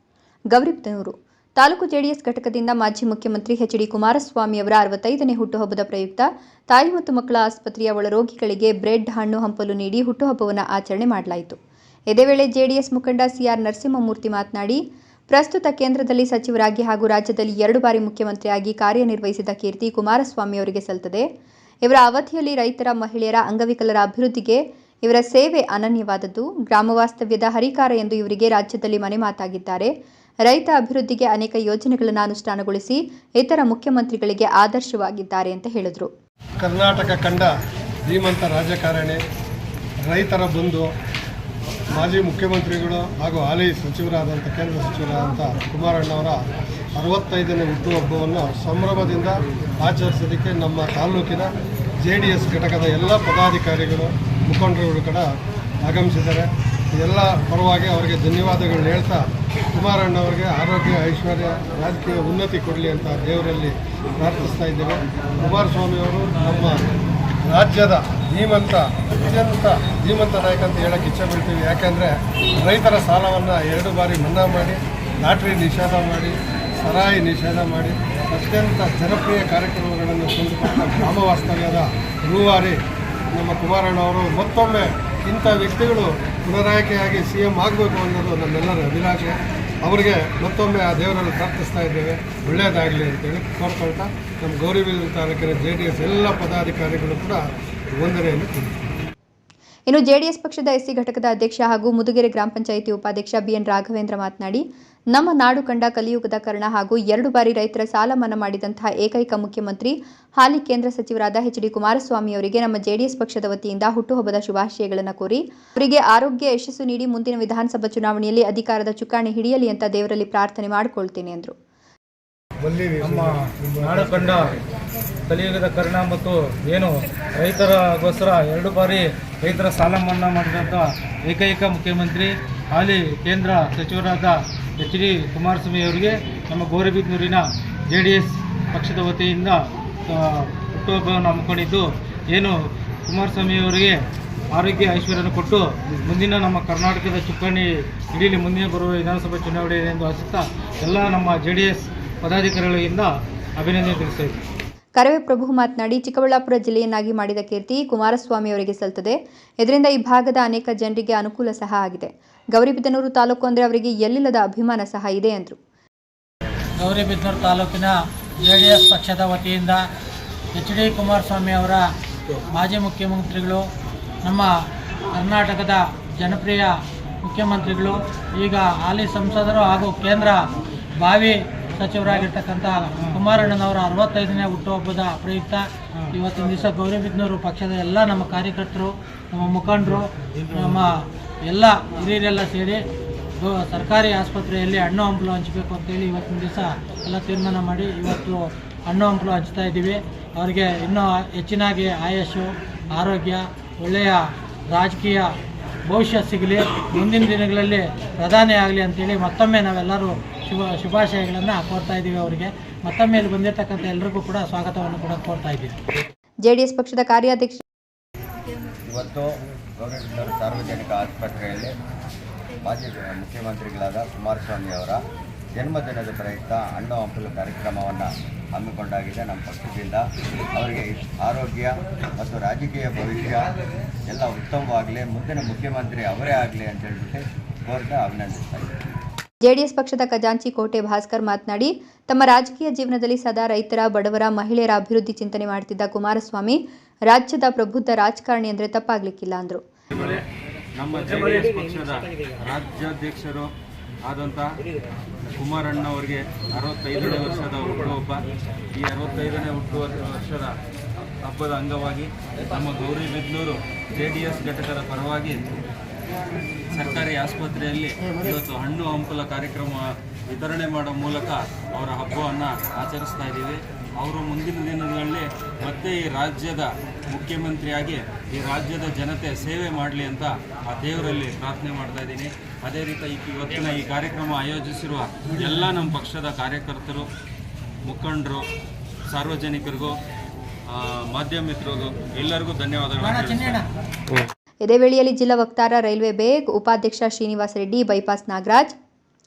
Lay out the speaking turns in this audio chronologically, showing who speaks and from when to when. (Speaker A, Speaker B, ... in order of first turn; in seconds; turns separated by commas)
Speaker A: 0.5-11.6, Speaker A: 12.1-21.3, Speaker A: 21.9-29.9, Speaker A: 30.5-36.1, Speaker B: 36.6-37.5, Speaker B: 38.1-39.2, Speaker B: 40.1-40.9, Speaker B: 42.0-46.5, Speaker B: 47.0-51.5, Speaker B: 52.0-66.9, Speaker B: 67.5-82.8, Speaker B: 83.3-97.4, Speaker B: 98.0-98.7, Speaker A: 99.9-121.5, Speaker C: 122.8-124.6, Speaker D: 123.2-124.3, Speaker C: 125.3-139.6, Speaker C: 140.1-142.5, Speaker C: 143.1-144.0, Speaker C: 144.6-147.6, Speaker C: 148.2-153.1, Speaker C: 153.6-154.4, Speaker A: 155.0-165.6, Speaker E: 166.8-169.8, Speaker E: 170.6-171.9, Speaker E: 172.5-173.6, Speaker E: 174.2-174.5, Speaker E: 175.1-180.5, Speaker E: 181.0-190.0, Speaker C: 190.3-190.8, Speaker E: 190.6-192.8, Speaker E: 193.4-205.3, Speaker E: 205.9-215.8, Speaker A: 216.4-217.6, Speaker D: 218.9-221.8, Speaker D: 222.6-225.0, Speaker D: 225.6-233.5, Speaker D: 234.1-238.8, Speaker A: 239.4-249.6, Speaker F: 249.9-250.2, Speaker F: 250.8-253.5, Speaker F: 254.1-254.5, Speaker F: 255.3-258.2, Speaker F: 258.7-260.5, Speaker F: 261.2-265.5, Speaker F: 266.7-287.1, Speaker F: 287.9-288.5, Speaker F: 289.1-289.9, Speaker F: 290.7-293.6, Speaker E: 293.0-293.7, Speaker A: 294.6-298.8